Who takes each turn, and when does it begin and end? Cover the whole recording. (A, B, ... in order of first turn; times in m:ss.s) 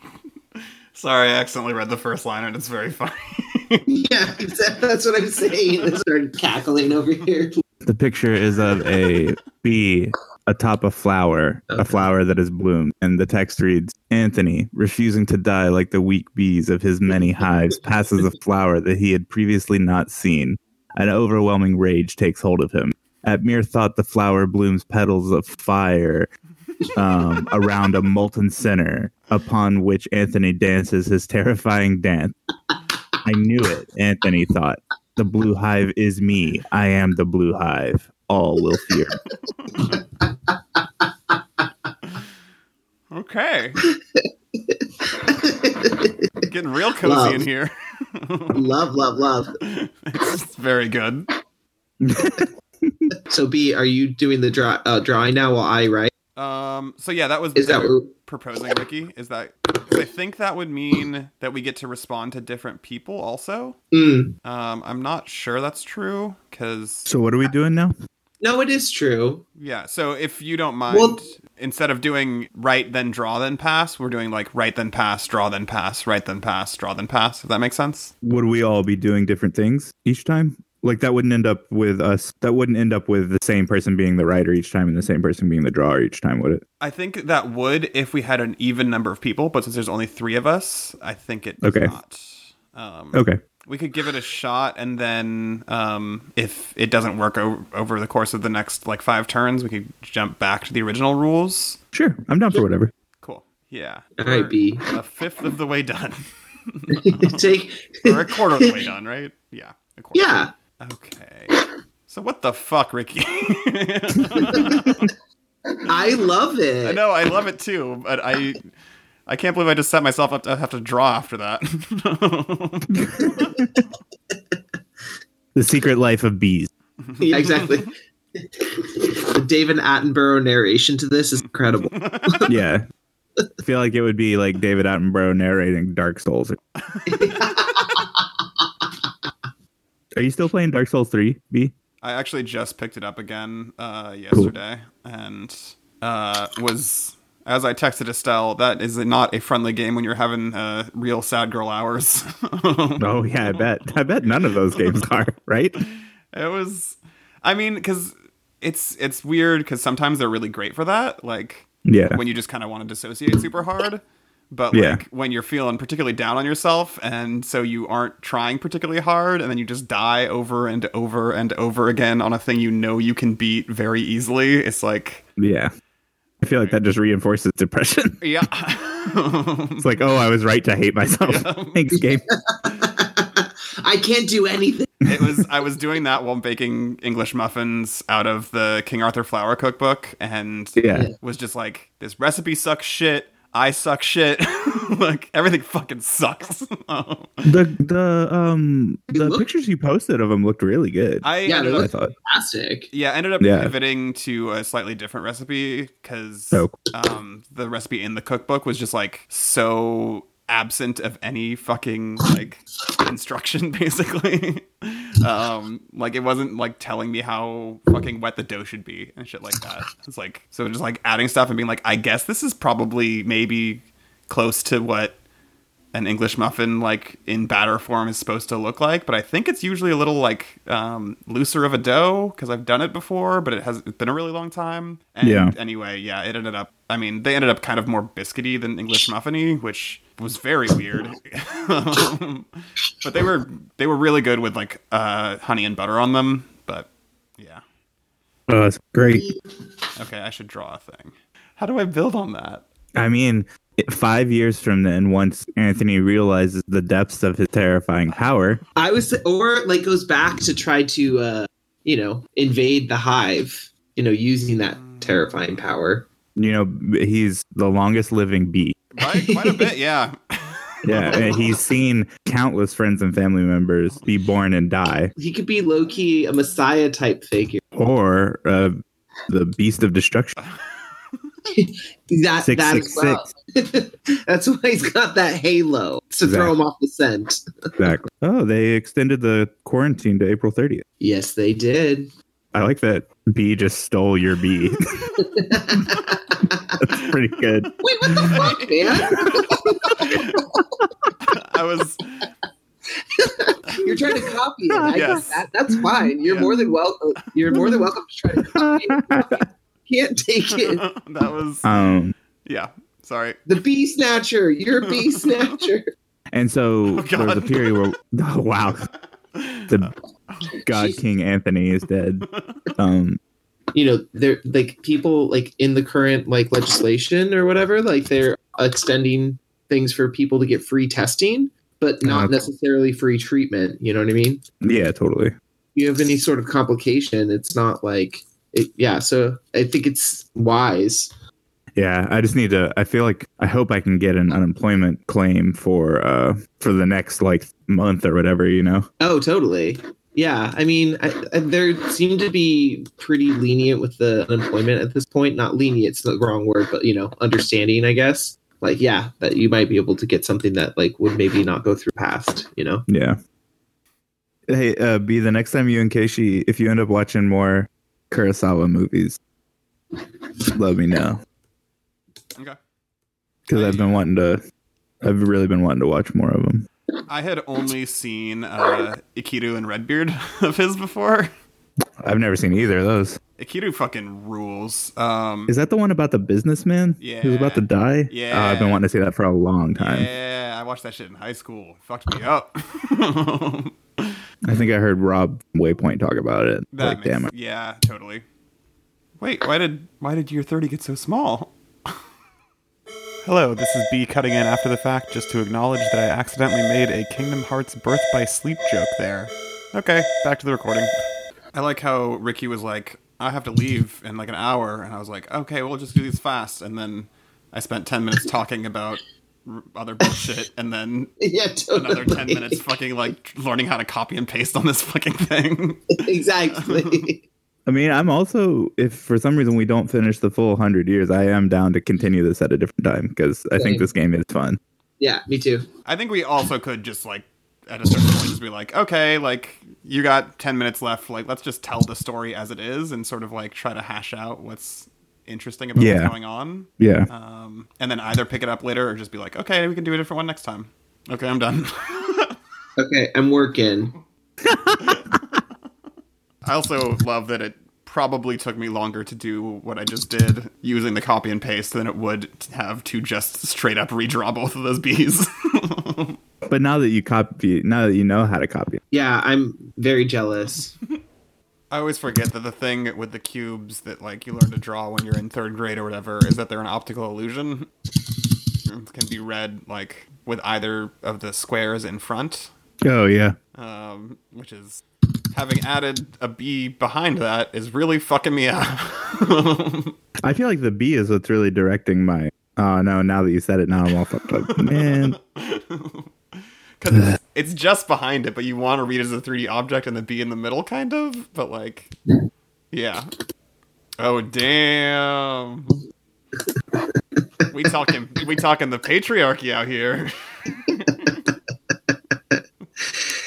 0:00.9-0:03.8 A
0:03.9-0:07.6 B
0:07.8-0:26.3 C
0:11.7-0:12.1 B
0:27.0-0:32.4 C
0:33.2-0:39.2 C
0:39.5-0:40.0 A
0:43.1-0:43.8 A
0:43.8-0:46.4 B
0:46.5-0:48.6 A
0:47.0-0:47.4 B
0:48.5-0:49.5 B
0:49.6-0:51.3 A
0:52.0-0:53.1 C
0:53.3-0:56.1 B
0:56.4-1:03.8 A
0:57.6-0:58.1 B
1:03.9-1:04.4 B
1:04.4-1:07.1 A
1:07.1-1:07.9 C
1:08.4-1:09.4 B
1:09.6-1:18.1 A
1:10.9-1:11.2 B
1:18.2-1:26.6 C
1:26.8-1:41.8 A
1:31.6-1:31.9 C
1:33.1-1:33.4 C
1:41.9-1:42.9 C
1:43.2-1:51.5 A
1:44.2-1:44.8 B
1:46.9-1:48.8 B
1:50.1-1:50.5 B
1:52.1-1:55.1 A
1:55.8-1:57.0 B
1:56.8-1:58.7 A
1:59.3-2:03.6 A
2:03.0-2:03.7 C
2:05.6-2:06.7 C
2:07.1-2:07.8 A
2:07.2-2:12.4 B
2:11.8-2:12.5 A
2:12.4-2:12.8 C
2:13.6-2:16.6 C
2:16.9-2:17.9 A
2:17.1-2:18.2 B
2:20.2-2:21.7 C
2:22.0-2:35.1 A
2:33.0-2:35.8 C
2:36.3-2:55.2 A
2:41.9-2:42.2 C
2:44.7-2:45.0 C
2:55.4-2:55.7 C
2:56.4-2:58.2 C
2:56.5-2:56.8 A
2:58.2-2:59.9 A
2:59.8-3:02.2 C
3:01.2-3:01.9 A
3:02.0-3:05.4 B
3:05.1-3:17.4 A
3:10.8-3:11.1 C
3:17.4-3:21.3 C
3:19.1-3:19.4 B
3:21.2-3:21.9 A
3:21.4-3:22.9 B
3:21.8-3:22.1 C
3:22.9-3:45.2 A
3:23.4-3:23.7 C
3:45.9-4:07.6 A
3:55.2-3:55.5 C
4:08.5-4:09.3 C
4:10.0-4:12.6 A
4:12.9-4:18.6 C
4:18.8-4:26.0 B
4:24.9-4:25.5 A
4:26.4-4:28.8 C
4:28.9-4:31.5 A
4:29.1-4:29.7 B
4:30.8-4:35.1 C
4:35.2-4:37.6 B
4:37.8-4:38.7 C
4:39.3-4:40.3 C
4:41.5-4:47.8 B
4:42.4-4:43.3 C
4:46.2-4:46.6 C
4:47.8-4:50.8 C
4:51.0-4:52.1 B
4:52.5-4:54.8 C
4:55.2-4:56.8 B
4:55.9-4:56.2 A
4:56.8-4:58.5 C
4:57.8-5:00.6 B
4:58.1-5:00.4 A
5:01.2-5:02.3 A
5:03.1-5:10.8 B
5:04.8-5:05.2 C
5:04.9-5:05.4 A
5:06.2-5:06.5 A
5:07.5-5:09.4 C
5:10.5-5:11.7 A
5:11.6-5:12.1 C
5:12.4-5:13.4 A
5:13.5-5:15.8 B
5:16.3-5:18.9 C
5:16.9-5:17.9 A
5:19.3-5:20.5 A
5:20.6-5:22.2 C
5:20.7-5:21.0 B
5:22.3-5:22.6 A
5:22.8-5:23.2 C
5:23.7-5:34.4 B
5:32.0-5:32.3 C
5:34.6-5:35.3 C
5:35.7-5:41.1 B
5:41.8-5:48.9 C
5:49.0-6:02.8 B
6:02.9-6:03.2 C
6:04.5-6:09.2 C
6:10.5-6:11.2 C
6:13.5-6:14.4 C
6:13.5-6:13.9 A
6:15.0-6:16.6 C
6:17.1-6:21.3 A
6:22.0-6:23.2 C
6:23.4-6:25.5 A
6:25.5-6:30.1 C
6:27.0-6:28.8 A
6:29.8-6:34.2 A
6:34.4-6:37.3 C
6:36.7-6:38.2 A
6:39.2-6:41.5 A
6:43.2-6:50.9 A
6:51.5-7:01.1 A
7:01.2-7:02.6 B
7:01.7-7:06.0 A
7:06.0-7:07.2 B
7:06.6-7:07.0 A
7:07.7-7:14.6 C
7:13.6-7:13.9 B
7:15.0-7:15.6 B
7:15.8-7:32.4 A
7:25.8-7:26.1 C
7:26.8-7:27.1 C
7:32.8-7:33.9 B
7:34.4-7:35.2 C
7:34.8-7:35.1 A
7:36.4-7:46.2 A
7:46.4-7:48.8 C
7:48.9-7:50.7 B
7:51.7-7:57.7 A
7:58.6-8:02.5 A
8:02.8-8:03.4 C
8:03.5-8:10.0 A
8:10.2-8:15.2 C
8:14.5-8:16.1 A
8:16.8-8:21.9 A
8:22.7-8:23.1 A
8:24.0-8:25.8 A
8:27.5-8:31.3 A